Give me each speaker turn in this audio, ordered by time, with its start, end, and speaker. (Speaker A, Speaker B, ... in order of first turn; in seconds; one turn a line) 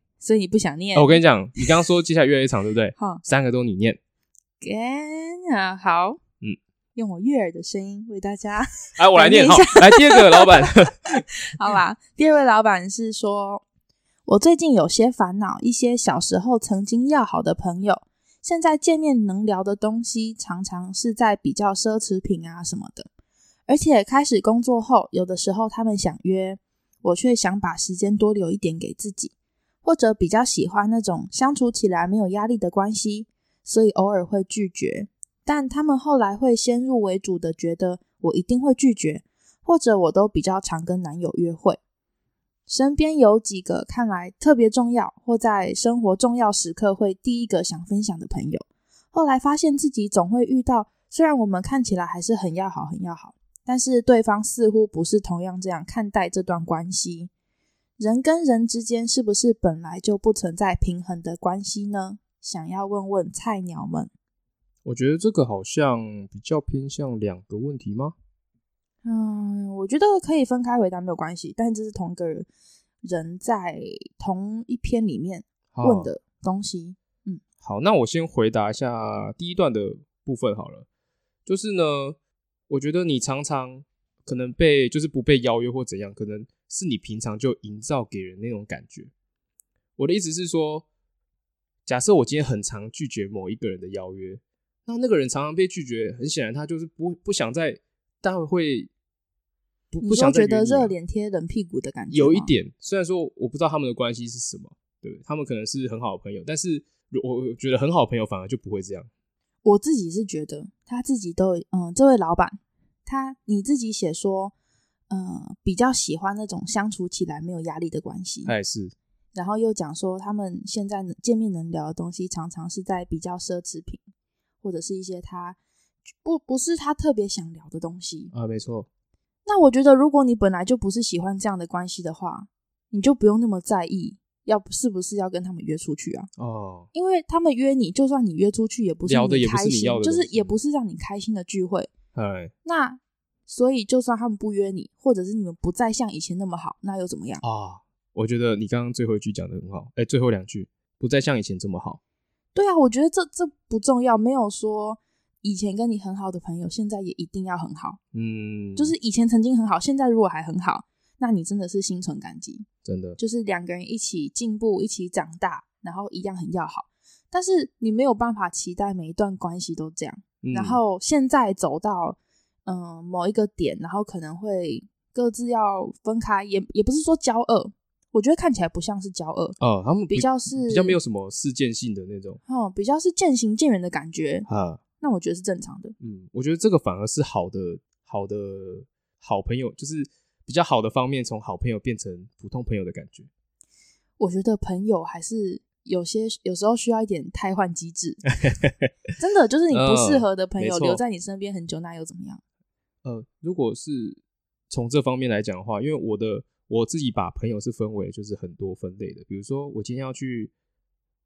Speaker A: 0.2-1.7
Speaker B: 0.9-4.0
Speaker A: 3.0-3.2
Speaker A: 4.6-6.2
Speaker A: 6.9-10.9
Speaker B: 9.0-11.7
Speaker A: 11.5-13.6
Speaker A: 14.2-23.1
Speaker A: 23.7-29.3
Speaker A: 29.8-41.8
Speaker A: 42.7-57.3
Speaker A: 58.0-64.1
Speaker B: 64.8-68.1
Speaker A: 69.0-72.5
Speaker A: 73.0-77.4
Speaker B: 75.7-76.1
Speaker B: 77.6-80.8
Speaker B: 81.5-82.2
Speaker B: 82.7-89.1
Speaker B: 90.0-90.8
Speaker B: 91.8-98.9
Speaker B: 99.9-100.9
Speaker A: 100.0-102.5
Speaker B: 102.1-109.1
Speaker A: 109.6-114.5
Speaker A: 115.1-118.5
Speaker B: 118.4-118.9
Speaker A: 119.3-124.0
Speaker A: 124.6-125.6
Speaker A: 126.2-128.3
Speaker B: 128.3-128.9
Speaker A: 129.4-136.3
Speaker B: 136.4-136.9
Speaker A: 136.9-141.9
Speaker B: 139.1-140.5
Speaker B: 142.1-142.5
Speaker A: 142.6-147.4
Speaker B: 147.4-152.0
Speaker A: 152.5-158.0
Speaker B: 158.1-158.9
Speaker A: 158.8-162.7
Speaker B: 162.8-163.2
Speaker A: 163.2-179.6
Speaker B: 170.4-170.8
Speaker B: 179.6-182.4
Speaker A: 180.1-181.0
Speaker A: 182.4-184.5
Speaker B: 184.4-184.8
Speaker A: 185.0-185.9
Speaker B: 186.0-193.3
Speaker A: 194.2-198.2
Speaker B: 198.4-198.9
Speaker A: 199.2-202.4
Speaker B: 199.7-201.0
Speaker B: 203.0-210.5